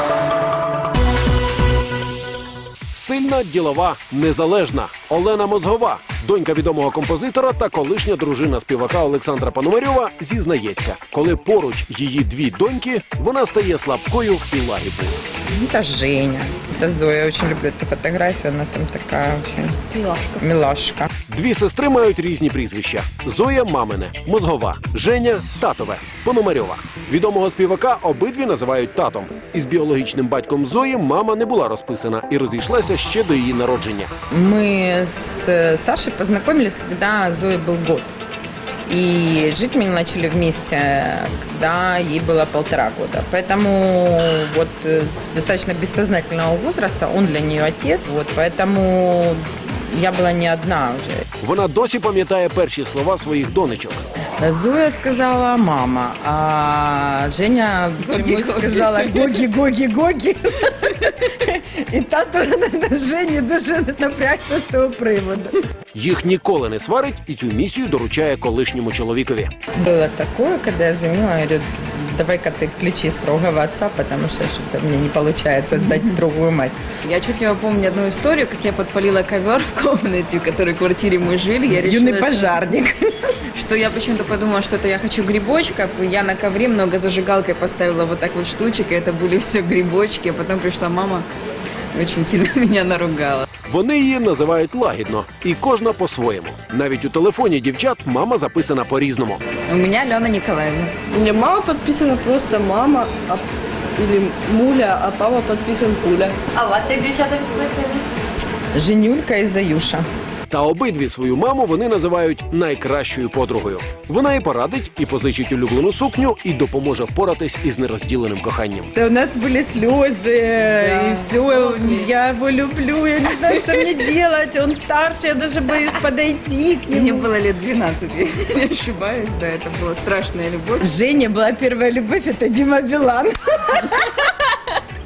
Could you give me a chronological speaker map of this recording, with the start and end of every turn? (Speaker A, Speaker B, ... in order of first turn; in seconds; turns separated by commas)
Speaker A: 2.9-15.2, Speaker B: 15.5-21.1, Speaker A: 21.3-34.1, Speaker B: 34.3-38.1, Speaker B: 38.9-51.2, Speaker A: 51.4-54.0, Speaker B: 54.4-65.6, Speaker C: 58.0-59.4, Speaker A: 65.9-69.5, Speaker B: 69.7-76.8, Speaker C: 77.0-82.6, Speaker B: 81.7-83.3, Speaker C: 83.5-91.3, Speaker C: 91.9-93.5, Speaker A: 93.7-99.4, Speaker C: 99.7-101.0, Speaker D: 101.1-106.3, Speaker B: 106.6-107.8, Speaker B: 108.7-110.1, Speaker A: 110.5-118.9, Speaker B: 118.9-127.3, Speaker C: 120.7-122.1, Speaker C: 126.9-130.9, Speaker B: 130.8-134.3